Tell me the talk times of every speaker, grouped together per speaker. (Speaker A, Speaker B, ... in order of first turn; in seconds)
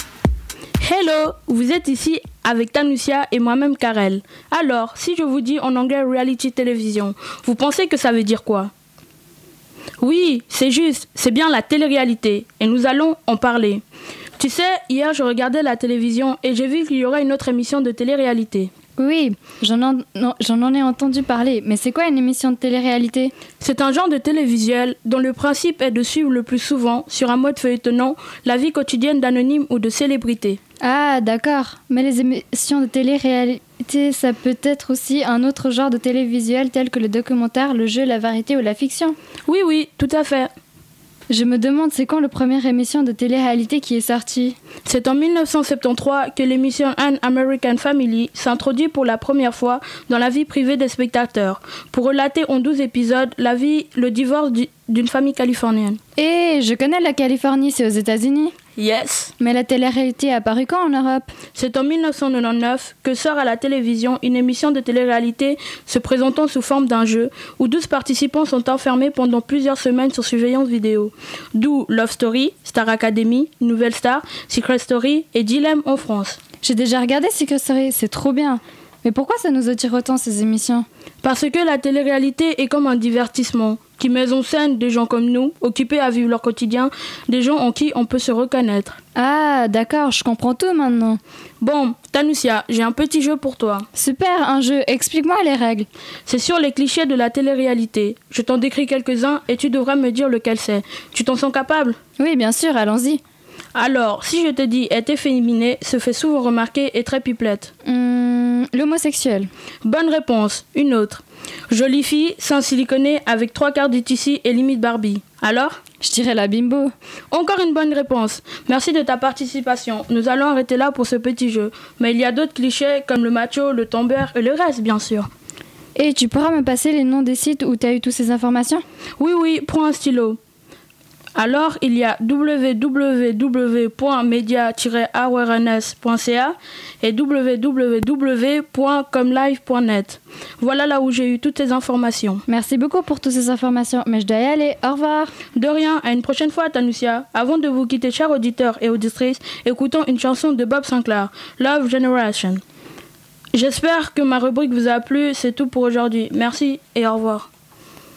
Speaker A: 0.8-8.7, 10.0-13.8, 14.4-18.7, 23.6-30.6, 39.5-40.5, 44.8-56.0, 58.8-59.3, 61.5-76.4, 81.2-89.0, 91.6-93.8, 96.3-102.0, 103.7-107.7, 109.8-115.8, 117.3-125.3, 129.2-130.4, 131.3-142.4, 145.5-152.6, 153.5-157.5
Speaker B: 19.0-23.3, 30.8-39.2, 41.3-44.6, 56.2-58.5, 59.4-61.3, 76.6-80.8, 89.1-91.2, 93.9-95.9, 102.2-103.2, 107.8-109.5, 116.0-116.9, 126.0-128.8, 142.5-145.3